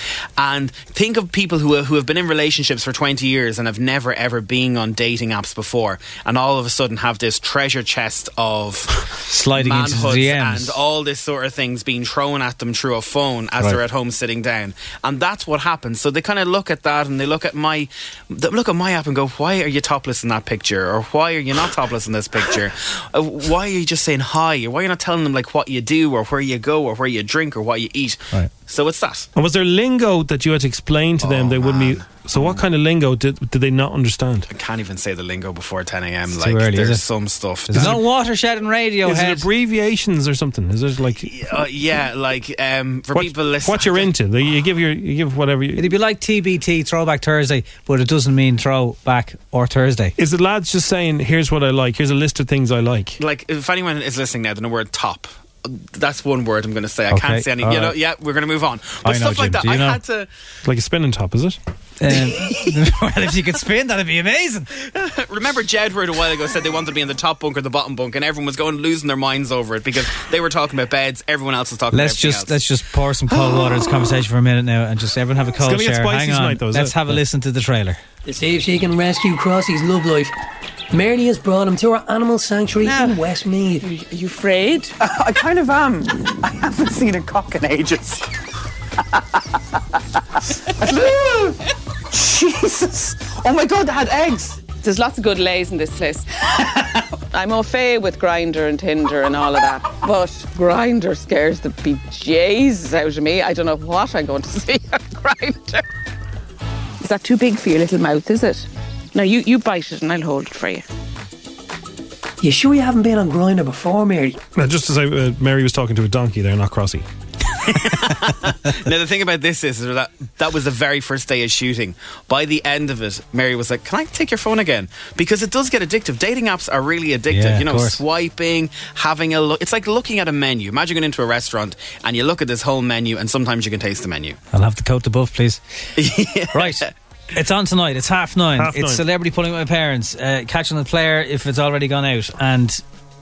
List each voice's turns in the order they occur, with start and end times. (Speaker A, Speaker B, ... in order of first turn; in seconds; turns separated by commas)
Speaker A: 0.4-8.9, Speaker B: 9.3-10.8, Speaker A: 9.6-29.3, Speaker C: 29.4-34.5, Speaker A: 31.2-32.6, Speaker A: 34.5-37.9, Speaker B: 36.3-37.0, Speaker B: 37.7-39.5, Speaker C: 37.7-38.0, Speaker C: 39.0-41.3, Speaker A: 41.2-44.1, Speaker C: 43.1-45.9, Speaker B: 45.8-50.1, Speaker C: 50.2-53.2, Speaker A: 53.2-60.3, Speaker B: 57.1-58.0, Speaker B: 59.0-60.0, Speaker C: 60.6-61.6, Speaker B: 62.0-64.7, Speaker A: 64.8-72.6, Speaker B: 71.9-78.0, Speaker C: 75.6-77.2, Speaker D: 78.3-80.3, Speaker D: 80.9-83.9, Speaker E: 84.0-84.9, Speaker E: 86.7-88.1, Speaker E: 90.9-91.2, Speaker E: 92.1-96.2, Speaker E: 97.3-105.8, Speaker E: 107.0-110.8, Speaker D: 112.4-114.4, Speaker C: 114.6-117.0, Speaker A: 117.7-134.4, Speaker B: 127.3-128.0, Speaker B: 134.5-135.6, Speaker A: 136.0-136.9, Speaker B: 136.5-136.8, Speaker B: 137.3-142.8, Speaker C: 138.6-139.0